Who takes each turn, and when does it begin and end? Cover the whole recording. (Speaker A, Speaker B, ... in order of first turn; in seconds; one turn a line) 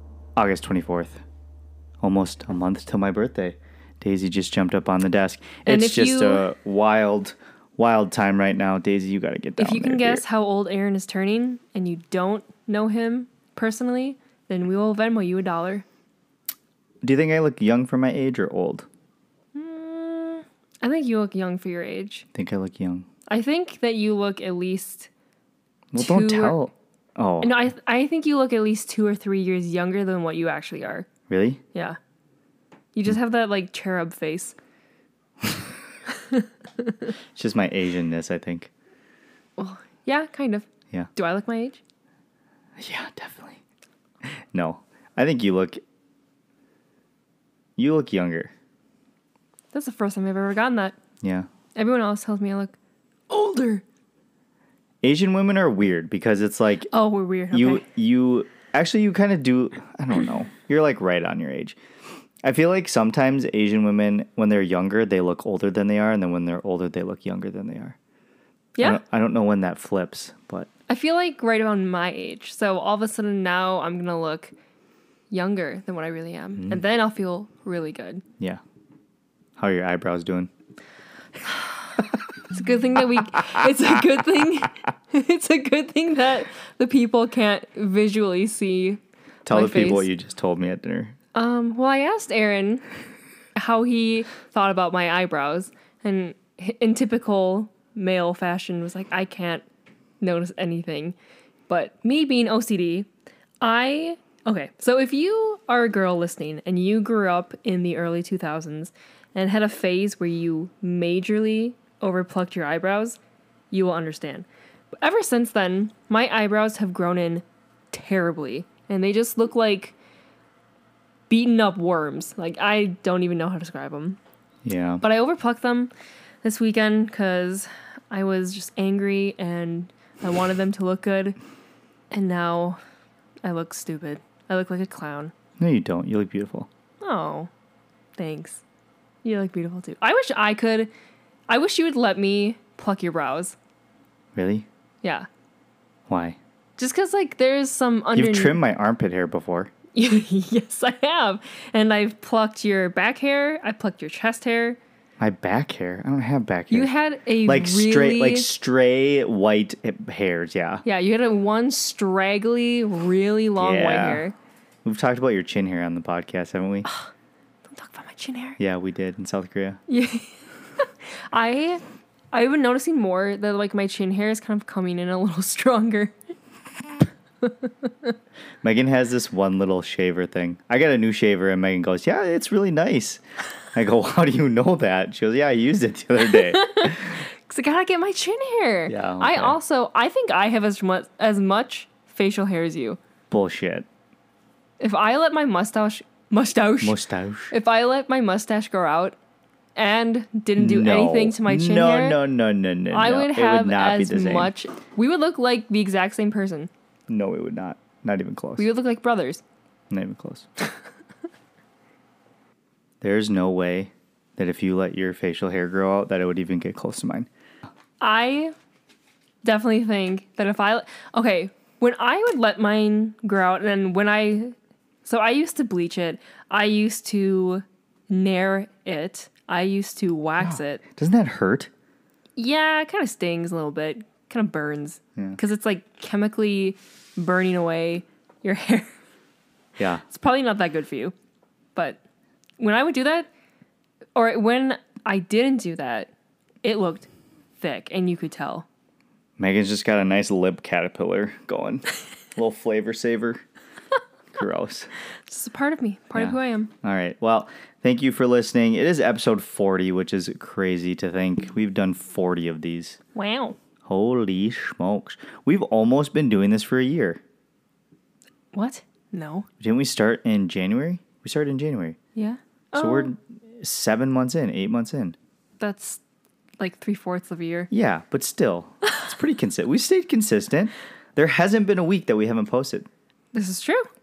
Speaker A: 0.3-1.2
Speaker A: 2.0-10.2
Speaker B: 5.7-6.5
Speaker B: 9.6-15.8
Speaker A: 17.0-18.9
Speaker B: 19.5-22.2
Speaker A: 22.3-23.1
Speaker B: 23.3-25.1
Speaker A: 25.9-27.6
Speaker B: 26.0-26.6
Speaker B: 27.4-31.1
Speaker A: 31.3-31.6
Speaker B: 32.9-34.5
Speaker B: 36.1-37.1
Speaker A: 37.3-38.7
Speaker B: 39.6-41.8
Speaker A: 42.8-43.6
Speaker A: 44.2-45.8
Speaker A: 47.8-48.5
Speaker B: 49.7-50.9
Speaker A: 51.2-51.5
Speaker B: 51.8-52.7
Speaker B: 53.3-53.8
Speaker A: 55.0-56.9
Speaker B: 56.9-57.8
Speaker A: 57.5-61.8
Speaker A: 62.4-68.0
Speaker A: 68.8-70.7
Speaker B: 70.9-74.5
Speaker B: 75.3-78.2
Speaker A: 79.6-80.5
Speaker B: 82.5-90.1
Speaker A: 83.3-84.0
Speaker A: 89.5-91.1
Speaker B: 91.3-92.8
Speaker B: 93.5-99.6
Speaker B: 100.2-101.1
Speaker B: 101.7-103.1
Speaker B: 103.6-113.2
Speaker B: 113.7-114.5
Speaker B: 115.0-120.0
Speaker B: 121.3-124.2
Speaker A: 124.6-125.0
Speaker B: 125.0-125.9
Speaker B: 126.4-131.3
Speaker B: 132.1-132.8
Speaker B: 133.4-135.3
Speaker A: 135.6-136.7
Speaker B: 137.0-137.5
Speaker B: 138.2-138.6
Speaker B: 139.2-140.9
Speaker B: 141.5-143.6
Speaker A: 144.3-144.7
Speaker A: 146.1-146.4
Speaker B: 146.8-148.6
Speaker A: 148.1-149.7
Speaker B: 149.9-154.8
Speaker A: 155.2-156.9
Speaker B: 156.7-158.5
Speaker A: 157.4-160.8
Speaker B: 160.8-164.3
Speaker A: 163.6-164.2
Speaker A: 164.8-166.9
Speaker B: 167.7-168.6
Speaker A: 168.6-169.8
Speaker B: 169.9-176.1
Speaker B: 177.4-178.1
Speaker A: 178.6-183.2
Speaker A: 183.7-187.2
Speaker B: 186.2-193.0
Speaker A: 188.9-189.6
Speaker A: 193.3-193.9
Speaker B: 194.8-197.0
Speaker A: 196.8-197.5
Speaker B: 197.5-199.2
Speaker B: 199.8-202.2
Speaker A: 200.6-204.5
Speaker B: 202.9-206.7
Speaker A: 207.1-208.6
Speaker B: 208.6-209.4
Speaker A: 209.9-210.5
Speaker A: 213.0-217.3
Speaker B: 218.0-218.5
Speaker B: 219.4-230.8
Speaker A: 230.4-231.7
Speaker B: 232.3-238.9
Speaker A: 239.8-240.0
Speaker B: 240.0-241.1
Speaker B: 242.6-243.3
Speaker B: 244.1-246.1
Speaker B: 246.6-247.1
Speaker B: 247.6-248.7
Speaker A: 249.4-253.4
Speaker A: 254.3-254.9
Speaker B: 255.3-256.7
Speaker A: 256.1-263.0
Speaker B: 263.1-263.6
Speaker A: 263.8-267.2
Speaker B: 268.5-269.5
Speaker A: 269.6-272.0
Speaker B: 272.1-273.1
Speaker A: 272.7-275.1
Speaker B: 275.6-276.0
Speaker B: 276.6-277.7
Speaker A: 277.7-282.9
Speaker B: 283.3-283.9